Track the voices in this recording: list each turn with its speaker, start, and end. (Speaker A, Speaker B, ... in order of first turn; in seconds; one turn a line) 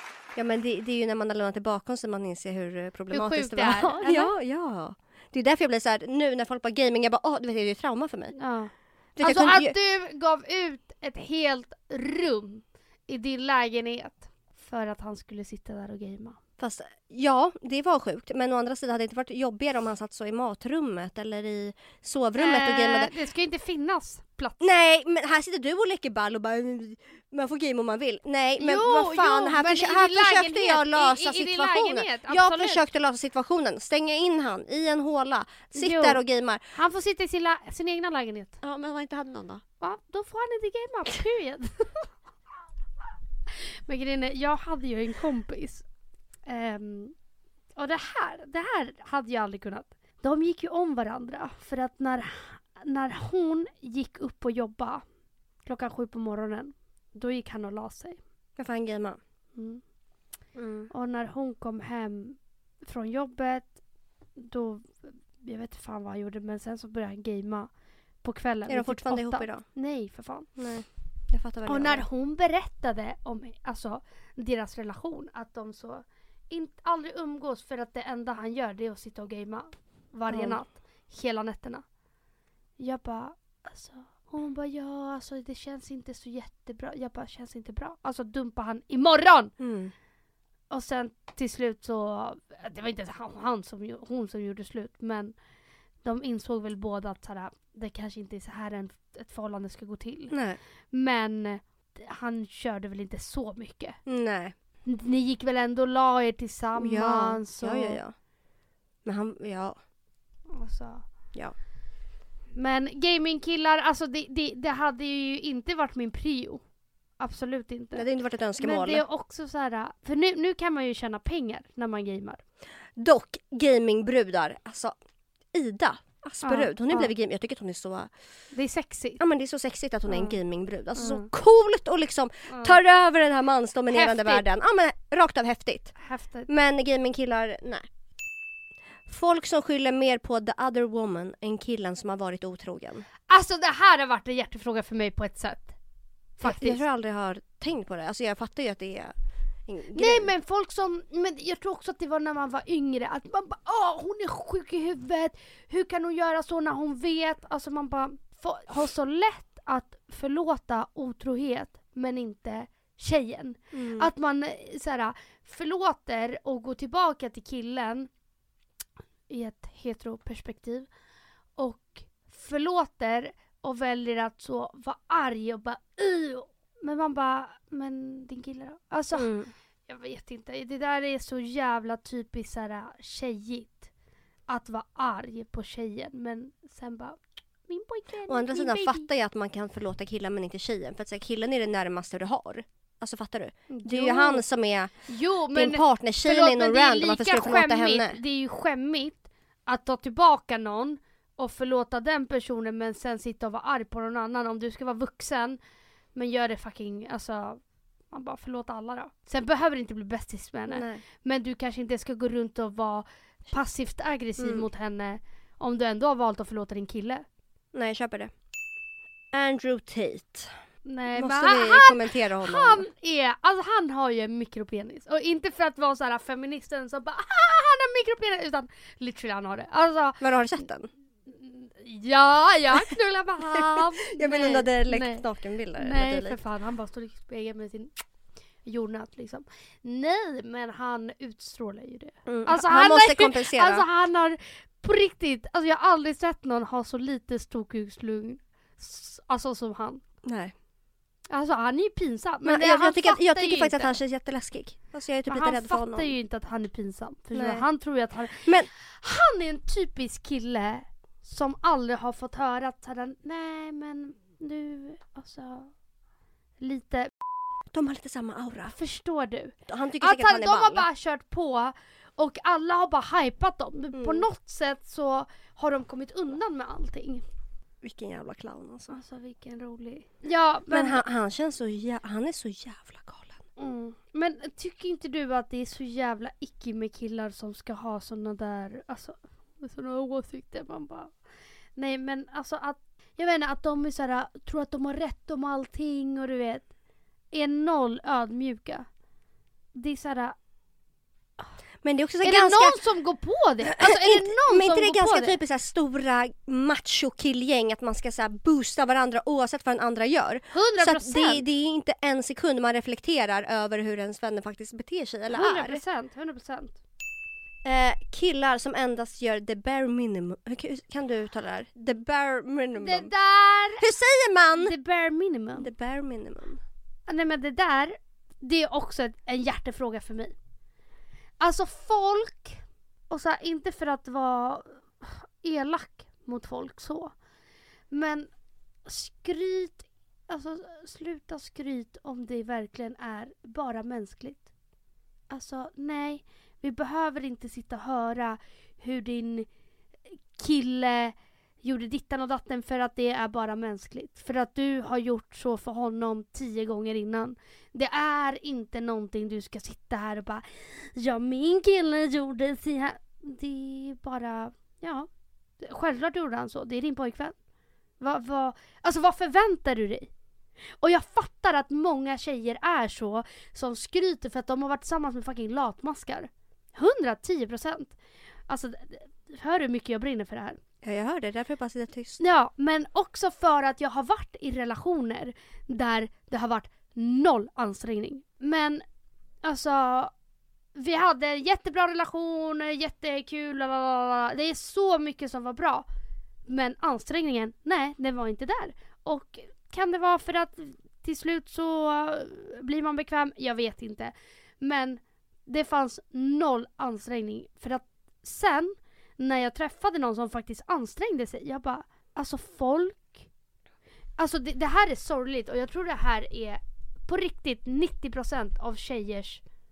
Speaker A: 0.3-8.3
Speaker B: 3.1-4.3
Speaker B: 8.3-16.4
Speaker A: 9.2-9.7
Speaker A: 16.6-23.1
Speaker B: 22.4-24.6
Speaker A: 24.6-36.6
Speaker B: 28.6-32.8
Speaker B: 35.7-38.6
Speaker A: 38.6-39.6
Speaker B: 39.8-42.1
Speaker B: 43.5-45.8
Speaker B: 46.5-47.1
Speaker B: 47.8-55.0
Speaker B: 55.6-58.2
Speaker A: 58.6-59.2
Speaker B: 59.5-59.8
Speaker A: 60.5-60.9
Speaker B: 60.9-63.7
Speaker B: 64.4-67.7
Speaker B: 68.2-70.5
Speaker A: 68.7-69.6
Speaker A: 70.6-72.0
Speaker B: 71.7-81.8
Speaker A: 80.3-80.6
Speaker B: 82.8-89.5
Speaker A: 89.6-89.9
Speaker B: 90.7-95.3
Speaker B: 96.0-100.3
Speaker A: 100.3-100.6
Speaker B: 100.9-104.0
Speaker A: 104.0-104.5
Speaker B: 104.8-108.0
Speaker A: 106.8-108.1
Speaker A: 109.0-109.8
Speaker B: 110.5-111.0
Speaker B: 112.5-116.6
Speaker B: 117.2-118.0
Speaker A: 117.9-119.0
Speaker B: 118.6-122.4
Speaker A: 123.0-124.9
Speaker A: 125.5-128.1
Speaker B: 126.4-127.1
Speaker B: 128.5-129.2
Speaker A: 129.2-135.9
Speaker B: 130.1-130.3
Speaker B: 131.0-131.3
Speaker B: 132.5-132.8
Speaker B: 133.9-134.4
Speaker B: 136.0-136.5
Speaker A: 136.5-137.9
Speaker A: 139.1-143.1
Speaker B: 143.3-145.8
Speaker B: 146.4-146.8
Speaker A: 146.4-149.1
Speaker A: 149.7-150.3
Speaker B: 149.9-168.1
Speaker A: 163.7-164.1
Speaker B: 169.3-170.9
Speaker B: 171.6-179.3
Speaker A: 179.1-179.5
Speaker B: 179.9-183.9
Speaker B: 184.5-189.1
Speaker A: 188.3-194.9
Speaker B: 193.7-194.4
Speaker B: 195.1-205.6
Speaker A: 195.5-198.2
Speaker B: 206.1-217.2
Speaker A: 210.7-211.0
Speaker A: 214.4-214.7
Speaker A: 217.7-218.3
Speaker A: 219.3-220.5
Speaker B: 220.8-230.2
Speaker A: 221.1-222.8
Speaker A: 230.2-230.9
Speaker B: 231.3-235.2
Speaker A: 233.5-236.4
Speaker B: 235.8-237.9
Speaker B: 238.6-250.0
Speaker A: 242.2-243.8
Speaker A: 250.2-250.5
Speaker B: 251.3-254.0
Speaker A: 252.4-256.1
Speaker B: 255.3-265.7
Speaker A: 257.3-257.6
Speaker B: 266.6-267.1
Speaker A: 267.7-268.7
Speaker B: 268.7-277.2
Speaker A: 269.7-270.9
Speaker A: 273.9-274.2
Speaker A: 277.8-279.0
Speaker B: 278.9-281.0
Speaker A: 280.7-283.4
Speaker B: 283.6-291.1
Speaker B: 291.8-296.7
Speaker B: 297.3-298.9
Speaker B: 299.7-300.4
Speaker A: 301.8-302.8
Speaker B: 302.2-305.4
Speaker A: 303.6-315.8
Speaker B: 310.5-311.4
Speaker B: 315.3-316.8
Speaker A: 317.6-323.1
Speaker B: 322.8-323.8
Speaker A: 323.8-324.7
Speaker B: 324.6-325.7
Speaker A: 325.6-326.6
Speaker B: 327.1-330.3
Speaker B: 331.4-337.1
Speaker B: 337.9-338.3
Speaker B: 338.8-344.5
Speaker B: 345.3-349.5
Speaker B: 350.3-365.1
Speaker B: 365.6-367.4
Speaker B: 368.0-370.1
Speaker B: 370.8-378.0
Speaker B: 378.5-380.6
Speaker A: 380.8-382.2
Speaker B: 382.2-388.8
Speaker B: 389.4-390.1
Speaker B: 390.7-395.8
Speaker B: 396.4-413.2
Speaker B: 414.2-419.4